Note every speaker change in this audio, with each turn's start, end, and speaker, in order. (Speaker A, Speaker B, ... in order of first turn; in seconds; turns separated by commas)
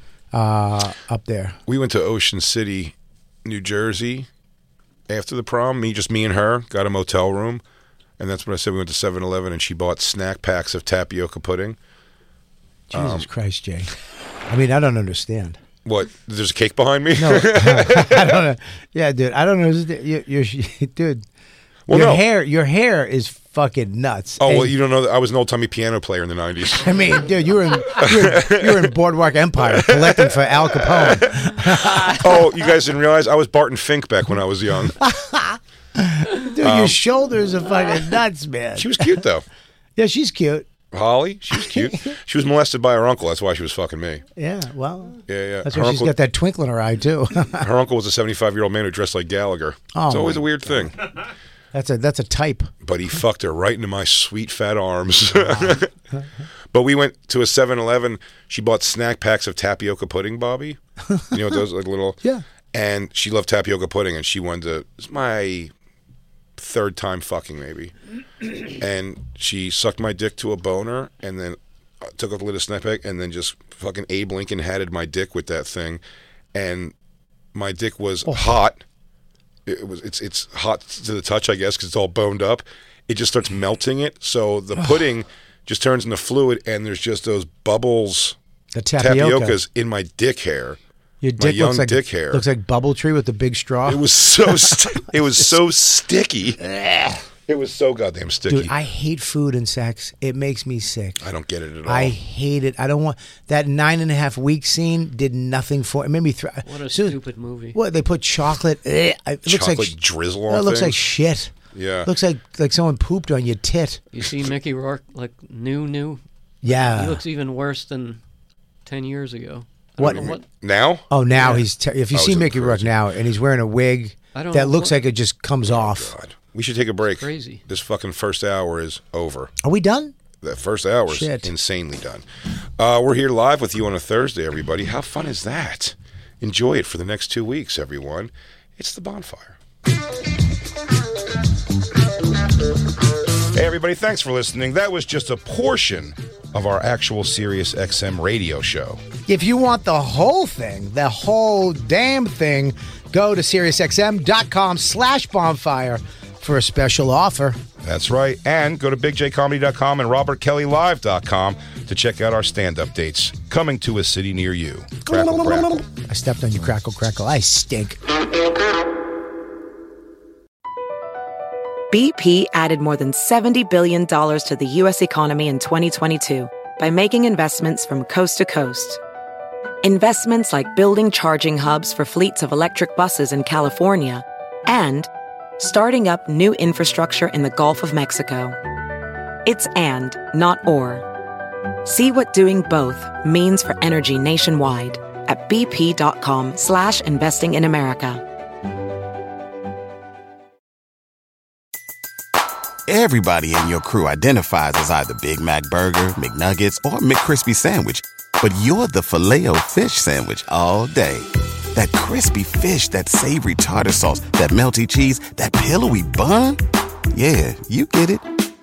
Speaker A: 0.3-1.6, Speaker B: 1.7-4.3, Speaker B: 5.1-7.6, Speaker B: 8.2-11.8, Speaker A: 12.9-13.9, Speaker B: 12.9-13.3, Speaker A: 14.5-15.6, Speaker B: 15.8-18.4, Speaker A: 17.2-21.2, Speaker B: 21.9-22.2, Speaker A: 21.9-24.7, Speaker B: 24.4-26.9, Speaker A: 26.8-32.2, Speaker B: 27.9-28.9, Speaker B: 29.7-35.0, Speaker A: 35.0-39.1, Speaker B: 36.6-37.0, Speaker B: 38.8-39.5, Speaker A: 40.0-40.7, Speaker B: 40.9-44.2, Speaker A: 41.5-42.1, Speaker A: 44.4-47.7, Speaker B: 45.3-46.1, Speaker B: 47.6-51.0, Speaker A: 49.9-50.9, Speaker A: 51.7-52.7, Speaker B: 52.8-55.9, Speaker A: 55.5-55.8, Speaker B: 56.7-60.8, Speaker B: 61.3-62.2, Speaker B: 62.7-65.7, Speaker B: 66.6-76.0, Speaker B: 76.5-76.9, Speaker B: 77.5-78.8, Speaker B: 79.7-88.4, Speaker A: 88.7-89.6, Speaker B: 89.0-90.8, Speaker A: 91.2-95.1, Speaker B: 91.4-92.4, Speaker B: 93.8-96.6, Speaker A: 96.6-97.2, Speaker B: 97.5-98.7, Speaker A: 98.5-101.2, Speaker B: 101.2-102.1, Speaker A: 101.8-107.2, Speaker C: 106.6-107.8, Speaker A: 107.7-111.5, Speaker B: 109.4-111.0, Speaker B: 111.7-112.1, Speaker A: 112.0-114.0, Speaker C: 114.1-118.2, Speaker A: 116.6-117.2, Speaker C: 118.8-120.4, Speaker A: 120.0-120.4, Speaker B: 120.0-121.1, Speaker A: 121.1-126.1, Speaker C: 121.3-121.7, Speaker B: 122.1-123.0, Speaker C: 124.3-125.1, Speaker B: 125.6-129.5, Speaker C: 127.2-127.6, Speaker A: 129.6-130.1, Speaker B: 130.4-132.2, Speaker A: 131.1-131.5, Speaker B: 132.8-139.6, Speaker B: 143.5-149.0, Speaker A: 149.3-157.6, Speaker B: 157.8-165.8, Speaker A: 166.1-168.0, Speaker D: 171.9-179.0, Speaker D: 179.8-188.6, Speaker D: 189.4-191.0, Speaker D: 191.8-198.2, Speaker E: 202.9-216.6, Speaker E: 217.1-218.3